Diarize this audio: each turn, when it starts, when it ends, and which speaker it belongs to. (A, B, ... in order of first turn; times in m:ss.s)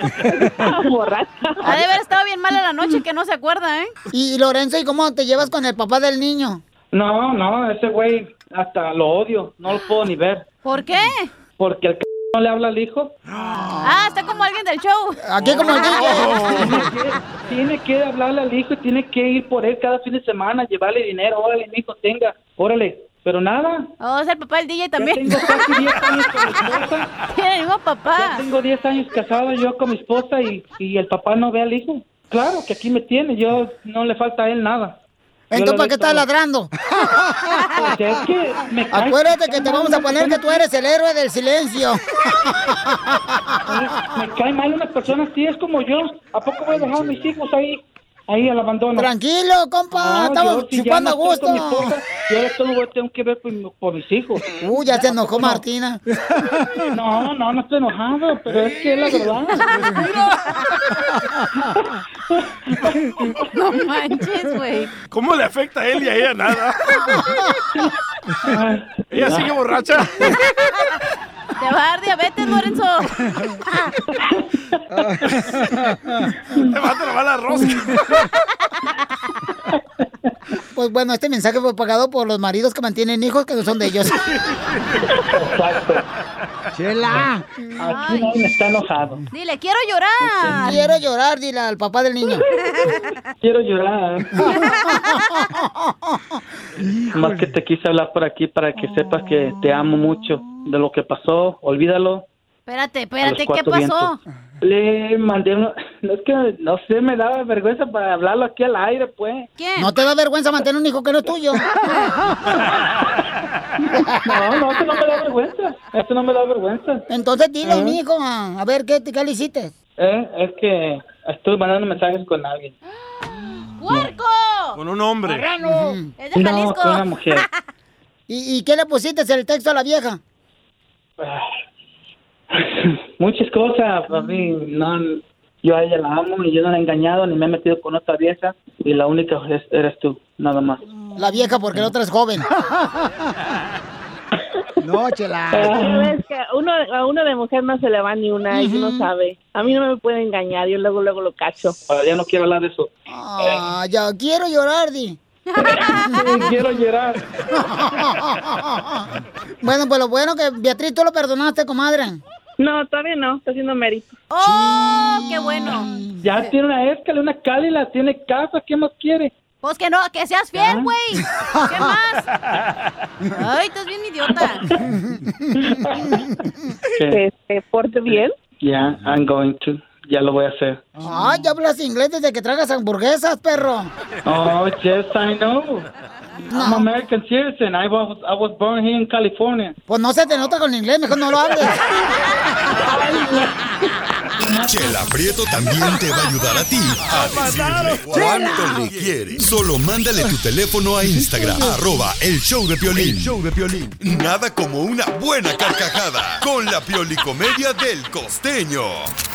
0:00.4-0:01.8 A
0:01.6-0:03.9 B
0:04.1-0:06.6 C
0:06.9-0:10.4 D
0:10.6-0:11.3 B
0:11.6-0:13.1 D
0:13.6-0:14.0 C
0:13.8-0:16.5 B
0:15.2-0:16.8 C
0:15.4-0:16.8 E
0:16.5-0:23.9 D
0:24.0-0:25.6 B
0:25.0-0:27.1 D
0:27.3-0:28.4 B
0:28.2-0:35.0 D
0:35.5-0:38.0 C
0:35.5-0:36.3 D
0:37.7-0:40.6 D
0:38.9-0:43.7 C
0:43.7-0:49.1 D
0:49.0-0:52.0 C
0:49.9-0:55.6 D
0:54.5-0:56.0 C
0:56.5-0:56.8 C
0:56.9-0:59.7 D
0:59.8-1:00.1 C
1:01.6-1:03.4 D
1:03.5-1:04.9 B
1:05.1-1:07.2 E
1:08.4-1:09.4 D
1:09.1-1:10.4 E
1:11.6-1:13.3 B
1:14.9-1:16.3 C
1:16.6-1:18.2 E
1:19.7-1:20.1 D
1:20.7-1:24.2 C
1:25.2-1:26.0 D
1:26.7-1:27.5 C
1:27.8-1:29.3 D
1:27.8-1:28.3 B
1:29.3-1:30.8 B
1:30.5-1:32.4 C
1:32.7-1:33.0 B
1:33.4-1:34.6 D
1:34.4-1:37.3 C
1:34.5-1:35.2 B
1:37.1-1:42.3 D
1:42.7-1:44.2 B
1:43.2-1:44.1 D
1:44.6-1:49.5 D
1:49.6-1:49.9 B
1:49.8-1:52.2 C
1:54.0-1:57.0 D
1:54.0-1:54.4 C
1:57.1-1:59.7 C
1:57.6-1:58.0 D
2:00.0-2:02.7 D
2:03.8-2:04.8 B
2:04.8-2:05.5 E
2:05.3-2:06.1 C
2:06.2-2:07.5 B
2:06.3-2:07.4 D
2:08.3-2:10.2 C
2:11.2-2:11.5 D
2:12.5-2:20.8 D
2:21.2-2:23.2 C
2:24.8-2:25.8 C
2:25.5-2:26.1 D
2:25.8-2:31.8 A
2:28.5-2:29.1 C
2:31.9-2:32.9 D
2:33.1-2:35.2 C
2:35.5-2:36.4 B
2:35.6-2:37.2 D
2:37.5-2:39.1 C
2:39.6-2:42.2 C
2:42.6-2:44.2 A
2:44.3-2:45.9 B
2:44.4-2:46.2 C
2:46.2-2:49.3 D
2:49.6-2:52.3 B
2:50.6-2:50.9 D
2:51.6-2:51.9 C
2:53.3-2:54.7 B
2:54.4-2:54.9 D
2:54.9-2:55.5 C
2:55.6-2:56.3 D
2:57.1-2:58.4 A
2:58.1-3:00.8 D
3:01.0-3:03.9 C
3:04.2-3:05.9 D
3:06.5-3:06.9 C
3:06.5-3:09.8 D
3:09.9-3:11.8 C
3:12.7-3:13.7 D
3:14.4-3:15.0 D
3:14.5-3:29.1 F
3:17.1-3:19.0 E
3:18.2-3:18.8 C
3:21.4-3:21.7 C